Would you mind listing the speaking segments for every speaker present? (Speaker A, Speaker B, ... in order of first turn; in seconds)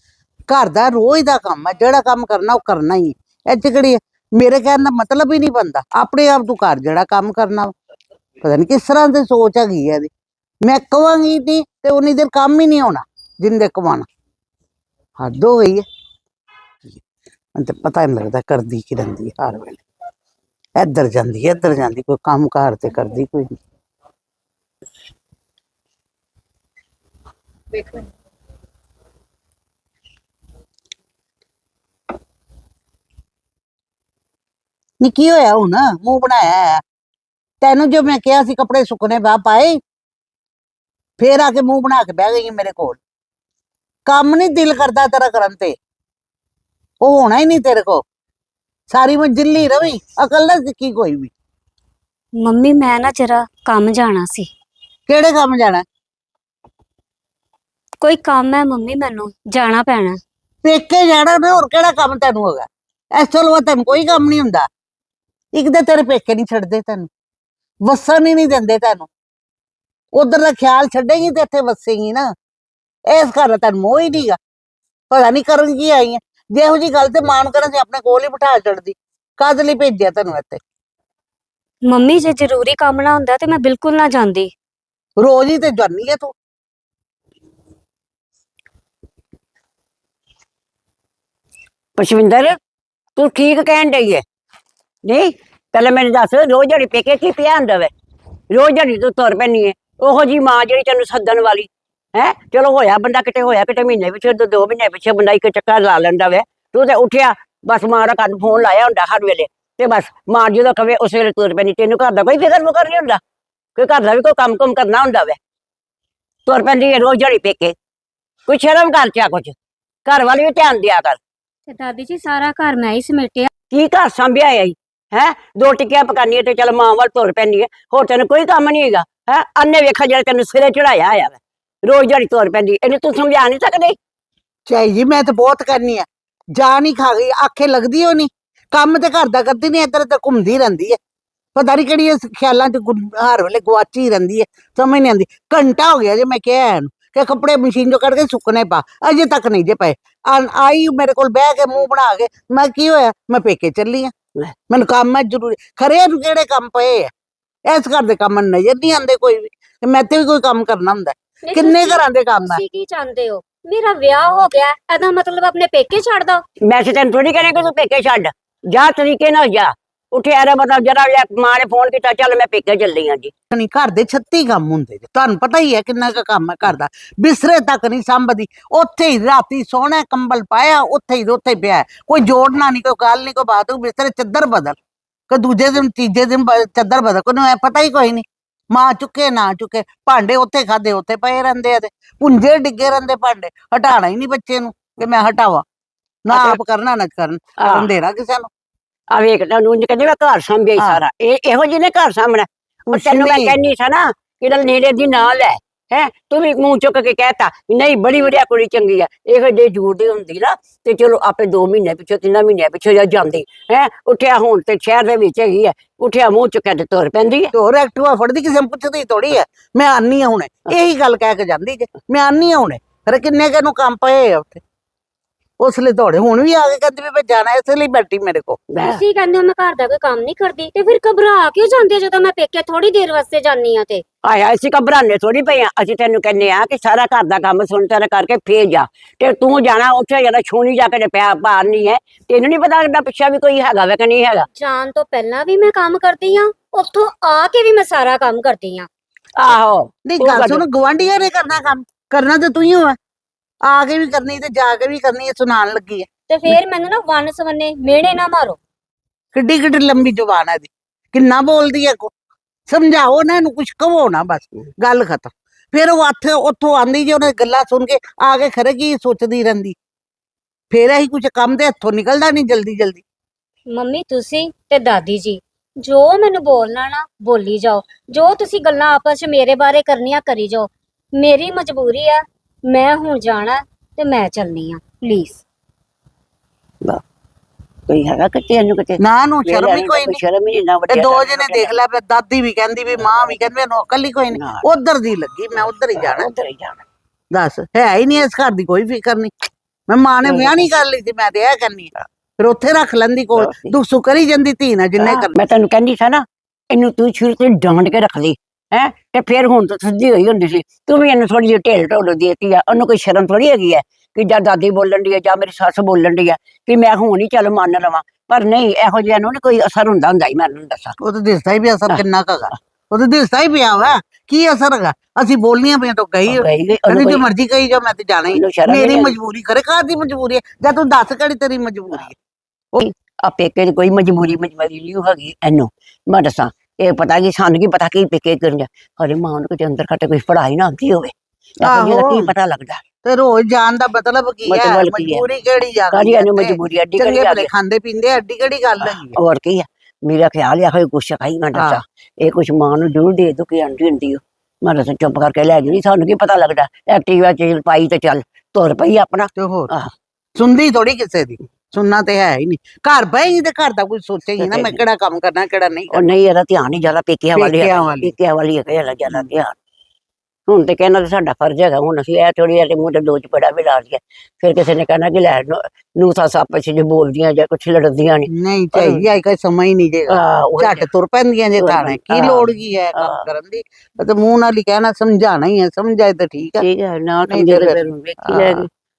Speaker A: 0.5-7.7, 8.4-10.1, 10.6-14.1, 15.2-15.9, 17.6-19.8, 20.8-23.6, 35.0-36.8, 37.6-39.8, 41.2-43.0, 44.1-45.8, 47.0-48.0, 48.9-51.3, 55.1-55.9, 60.6-64.7, 65.5-67.1, 67.8-69.1, 70.2-72.3, 73.1-74.4, 75.1-80.6, 85.2-86.3, 134.7-141.0, 141.6-154.1, 154.7-157.1, 157.7-162.6, 173.5-184.8, 185.3-195.7, 196.3-198.5, 202.9-203.6, 217.5-224.6, 225.6-228.6, 250.1-253.0, 253.7-256.1, 259.3-262.1, 262.7-269.8, 270.7-273.0, 289.0-290.2, 290.9-296.3, 297.3-299.3, 299.9-305.3, 321.0-332.2, 341.6-342.3, 343.0-349.2, 351.6-351.8, 359.4-359.7, 360.4-366.1, 367.4-368.1, 378.3-386.6, 387.3-388.7
Speaker B: 52.4-54.5, 58.0-60.2, 81.9-84.5, 121.7-123.5, 161.4-166.4, 228.8-234.0, 244.6-248.9, 256.3-258.6, 273.7-285.4
Speaker C: 92.0-92.6, 93.2-94.2, 95.0-97.9, 98.5-113.2, 113.8-115.4, 116.5-117.8, 118.5-121.2, 123.7-134.0, 166.7-173.3, 196.3-196.6, 197.6-197.9, 199.1-217.5, 228.7-229.0, 234.2-244.5, 249.4-250.7, 287.9-291.8, 293.0-293.3, 294.3-294.6, 295.6-296.9, 300.2-300.7, 303.4-303.8, 305.0-321.0, 326.3-327.2, 328.3-329.2, 332.8-342.8, 344.5-345.2, 345.9-347.5, 348.8-359.9, 364.4-364.8, 365.9-369.6, 370.5-379.1, 380.1-380.9, 381.6-383.2, 386.6-388.7